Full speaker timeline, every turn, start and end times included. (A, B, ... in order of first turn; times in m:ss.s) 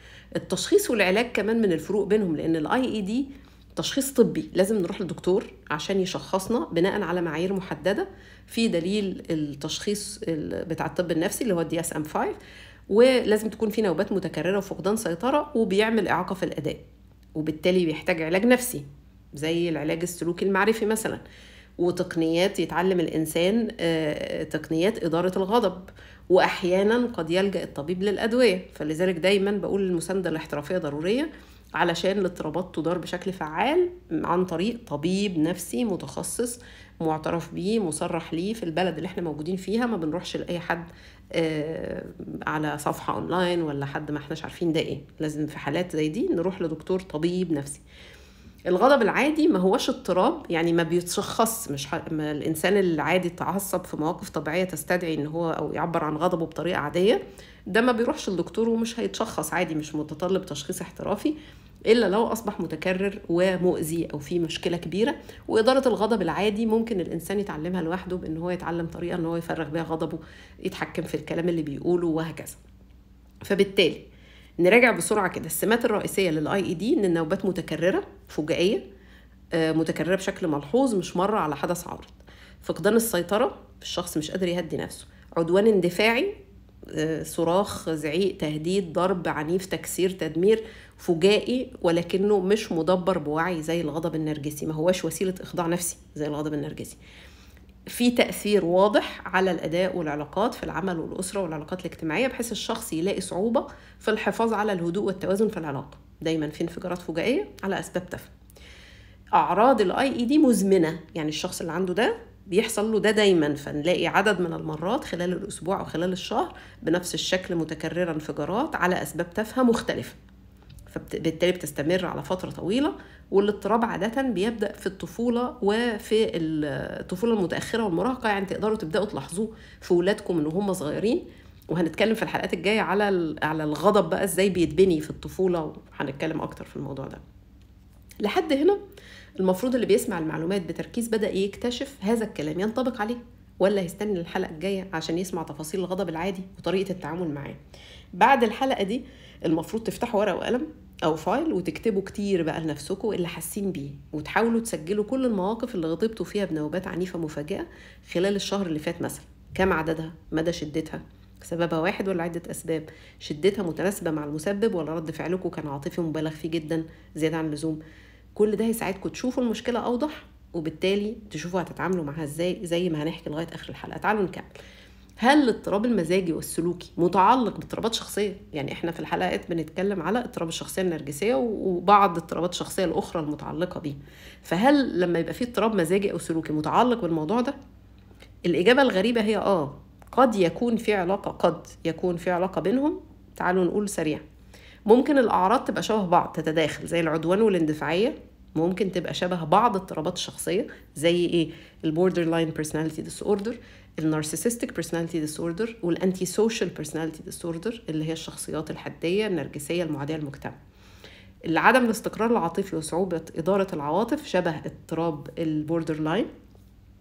0:00.4-0:12.4 A
0:12.9-0:16.8 A
0:17.4-0:21.2 A
0:21.8-0:47.8 A
0:48.7-1:01.4 A
1:01.9-1:12.6 A
1:13.4-1:14.0 A
1:14.6-1:18.8 A
1:19.5-1:26.4 A
1:26.9-1:37.0 A
1:37.9-1:48.3 A
1:49.4-2:00.2 A
2:00.9-2:17.2 A
2:18.2-2:18.8 A
2:19.4-2:27.6 A
2:28.2-2:47.8 A
2:48.4-2:54.6 A
2:55.2-3:07.6 A
3:08.5-3:14.2 A
3:14.9-3:30.6 A
3:31.5-3:36.3 A